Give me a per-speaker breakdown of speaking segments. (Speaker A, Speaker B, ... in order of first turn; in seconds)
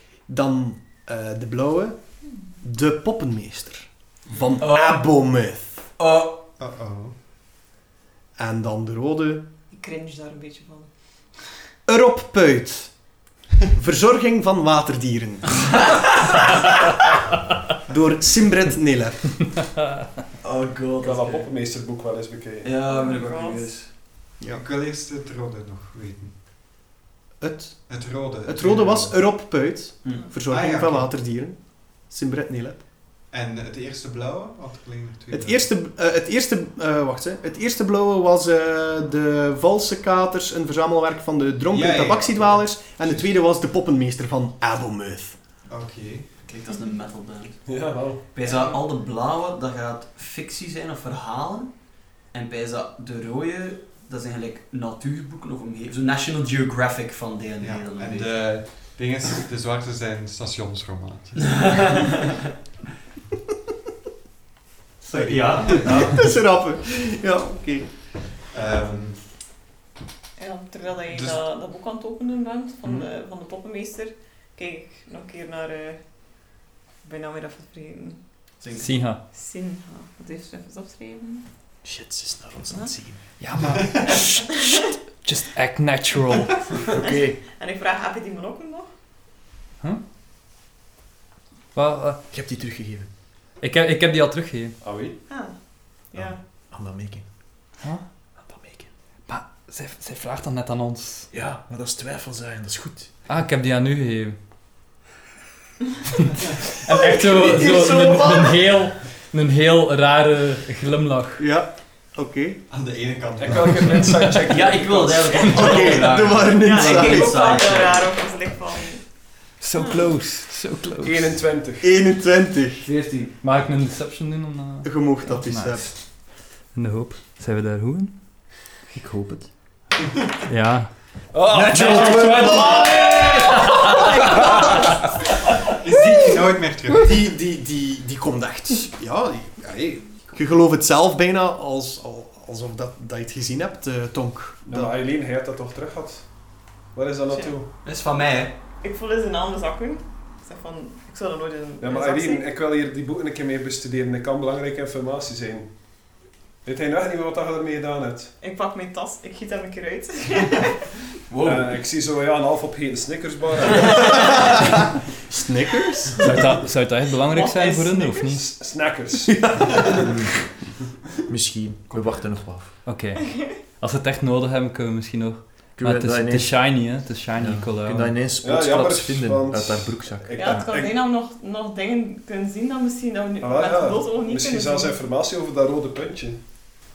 Speaker A: 0.3-2.0, 2.6-5.8, 8.4-9.5, 11.9-12.9, 13.7-15.9, 17.9-19.8, 24.4-24.6, 27.4-32.8, 35.3-45.4, 65.9-67.9, 111.4-112.6, 115.4-117.5, 121.8-122.9, 124.8-125.9, 136.9-139.7, 140.3-144.9, 165.3-166.3, 169.3-169.9
Speaker B: 2.2-2.5, 9.7-10.9, 22.8-23.7, 48.4-48.8, 70.4-76.3, 77.0-78.2, 79.2-81.5, 87.0-88.9, 95.3-96.4, 116.5-119.1, 119.8-120.1, 148.8-152.4, 158.4-160.9, 167.2-168.3, 173.2-173.6, 180.3-185.0
Speaker C: 4.6-5.1, 6.0-6.4, 20.4-21.5, 22.6-23.9, 46.4-51.7, 52.3-58.6, 61.4-62.4, 65.0-66.3, 78.6-78.9, 107.3-108.5, 114.5-118.1, 122.8-123.3, 131.7-133.0, 147.8-148.6, 161.3-161.8, 171.9-172.3
Speaker D: 6.6-7.1, 24.4-26.3, 27.9-29.2, 30.5-31.1, 33.3-35.7, 41.7-43.3, 45.7-46.3, 57.6-61.8, 65.1-66.2, 68.5-69.2, 71.1-71.4, 112.7-114.3, 135.7-137.3, 139.6-140.1
Speaker E: 21.0-22.7, 47.6-48.2, 94.8-95.2, 113.4-116.0, 121.0-121.8, 131.3-133.4, 144.7-146.3, 146.9-147.7, 151.8-156.1, 156.6-158.3, 161.4-164.3, 168.3-169.3, 178.4-181.0, 183.4-186.7
Speaker F: 78.8-79.2, 83.4-86.6, 91.7-92.2, 93.6-94.8, 99.3-101.3, 103.3-104.3, 106.2-111.4, 119.6-121.4, 123.4-129.8, 130.5-130.9, 131.8-133.8, 166.2-168.4, 172.8-178.2
Speaker G: 81.8-83.2, 86.9-87.4, 92.3-93.1, 96.1-97.2, 98.4-98.9, 101.3-103.1, 131.5-133.0, 170.0-170.5, 171.3-172.8, 175.8-180.6